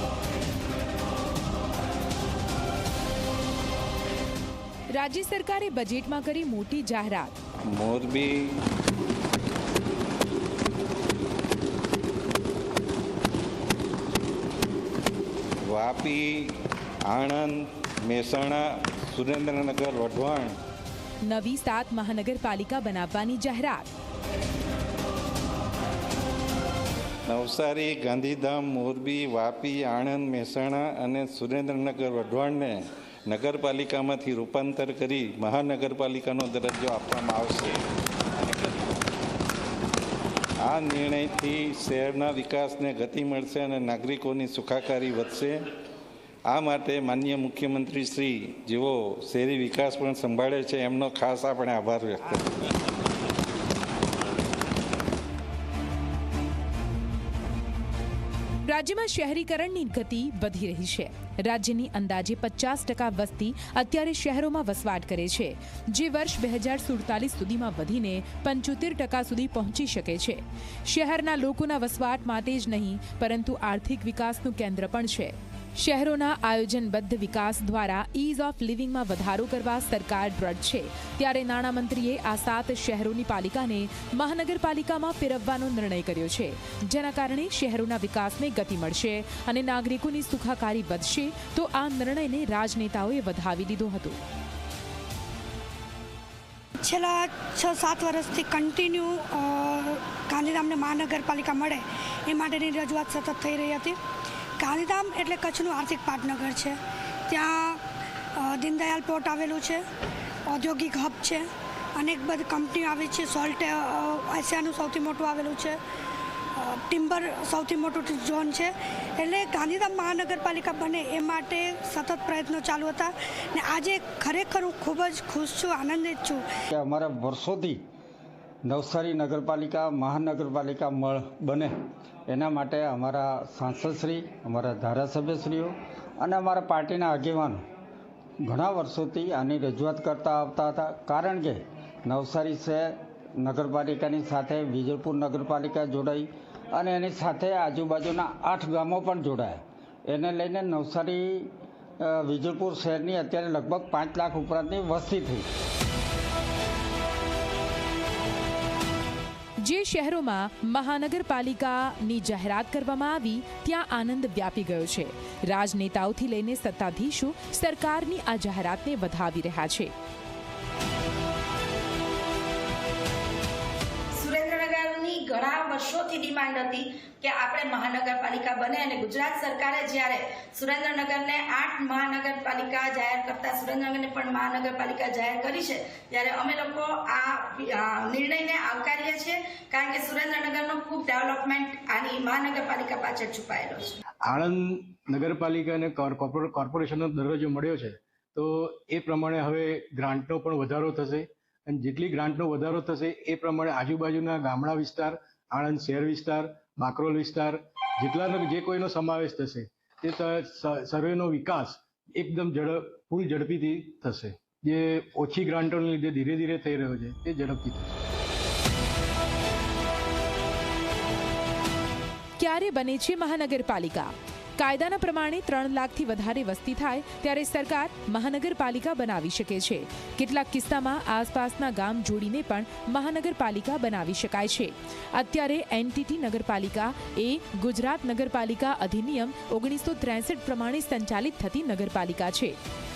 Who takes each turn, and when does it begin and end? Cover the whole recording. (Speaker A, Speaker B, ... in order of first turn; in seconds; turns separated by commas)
Speaker A: 4.9-7.4, Speaker B: 7.7-8.5, Speaker B: 15.7-16.5, Speaker B: 17.1-20.5, Speaker A: 21.2-23.9, Speaker B: 27.3-37.8, Speaker B: 40.6-45.6, Speaker B: 46.5-52.4, Speaker A: 58.7-94.2, Speaker C: 96.8-101.8, Speaker C: 102.4-103.9, Speaker C: 104.6-106.7, Speaker C: 108.5-109.8, Speaker C: 110.5-111.4, Speaker C: 112.2-115.7, Speaker C: 117.0-118.7, Speaker C: 119.2-121.2, Speaker C: 121.8-123.0, Speaker C: 123.6-124.9, Speaker C: 126.1-126.4, Speaker D: 126.7-127.8, Speaker D: 128.6-131.7, Speaker D: 132.3-137.6, Speaker D: 138.4-155.4, Speaker A: 159.6-169.9, Speaker E: 174.2-194.0, Speaker F: 194.2-217.9, Speaker A: 222.4-242.6